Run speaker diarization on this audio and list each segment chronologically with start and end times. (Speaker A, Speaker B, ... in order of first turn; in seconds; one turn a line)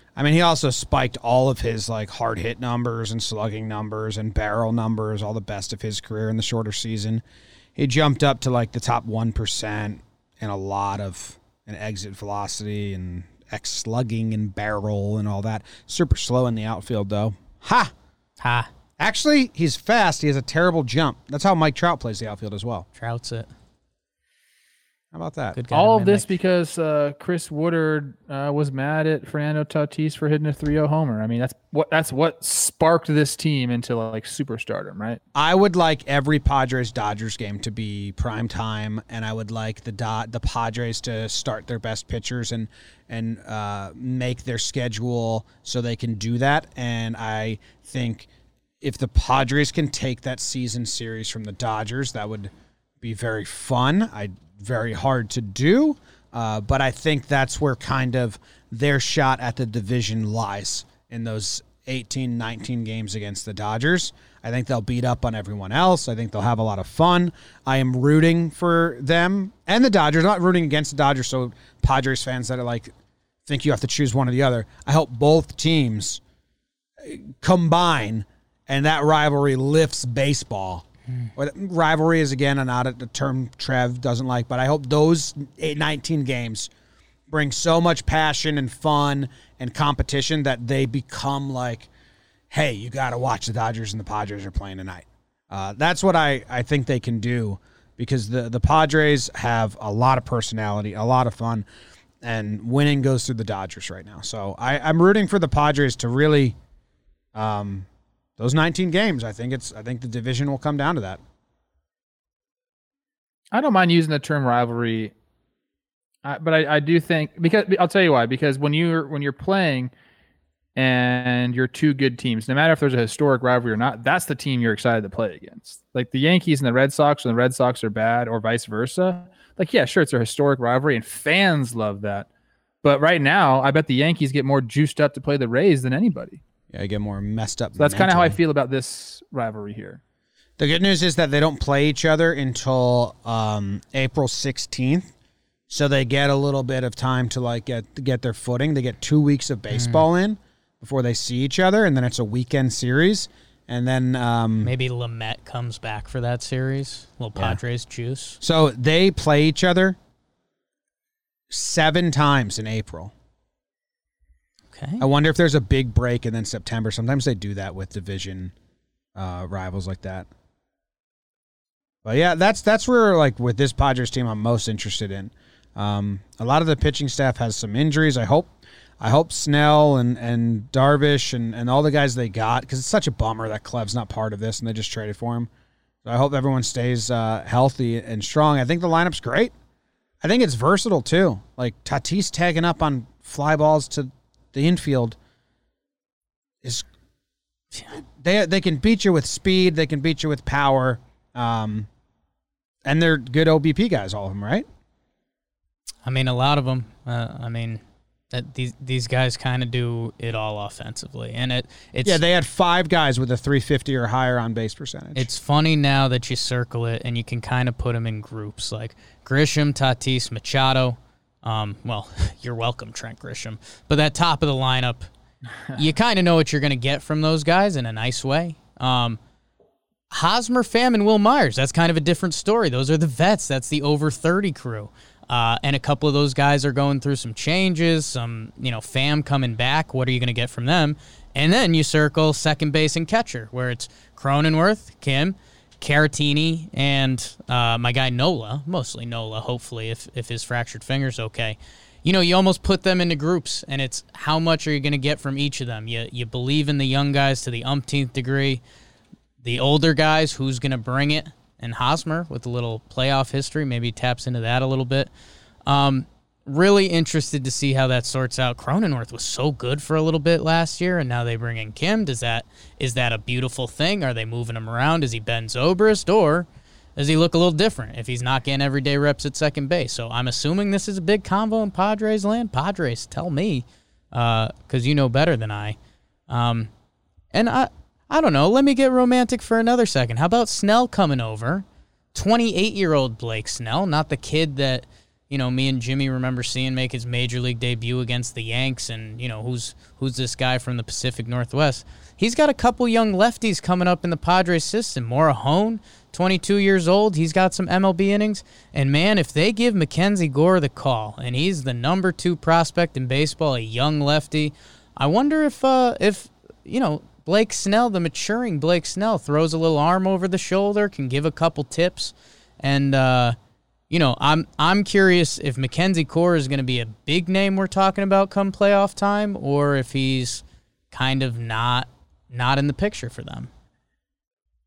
Speaker A: 0.1-7.2
Speaker A: 7.8-17.9
Speaker B: 18.4-18.7
Speaker A: 19.0-22.9
Speaker B: 23.0-23.5
Speaker A: 25.1-25.6
Speaker B: 25.5-26.3
Speaker C: 25.7-35.2
Speaker A: 35.3-48.3
Speaker A: 48.8-72.9
Speaker A: 73.5-76.2
Speaker A: 77.0-80.8
Speaker A: 81.3-86.7
Speaker A: 87.3-91.9
Speaker A: 92.5-101.7
Speaker A: 102.2-106.5
Speaker A: 107.3-107.9
Speaker A: 108.4-111.2
Speaker C: 113.5-115.1
Speaker C: 116.2-119.9
Speaker C: 120.7-132.3
Speaker C: 132.8-136.4
Speaker A: 136.7-138.4
Speaker C: 137.8-140.0
Speaker A: 140.6-145.1
Speaker A: 145.7-154.7
Speaker B: 149.7-150.1
Speaker B: 154.6-158.4
Speaker A: 158.4-160.0
Speaker A: 161.5-163.1
Speaker B: 164.7-165.0
Speaker A: 165.0-168.5
Speaker A: 169.1-170.3
Speaker A: 172.0-185.5
Speaker A: 186.0-189.5
Speaker A: 190.2-195.2
Speaker A: 198.0-201.9
Speaker A: 202.8-204.7
Speaker B: 206.0-207.8
Speaker B: 208.3-212.2
Speaker A: 212.0-215.3
Speaker B: 215.1-225.1
Speaker B: 225.8-229.2
Speaker B: 230.1-258.6
Speaker B: 259.4-265.1
Speaker B: 265.7-285.8
Speaker B: 286.3-286.7
Speaker B: 287.3-323.4
Speaker B: 323.9-333.5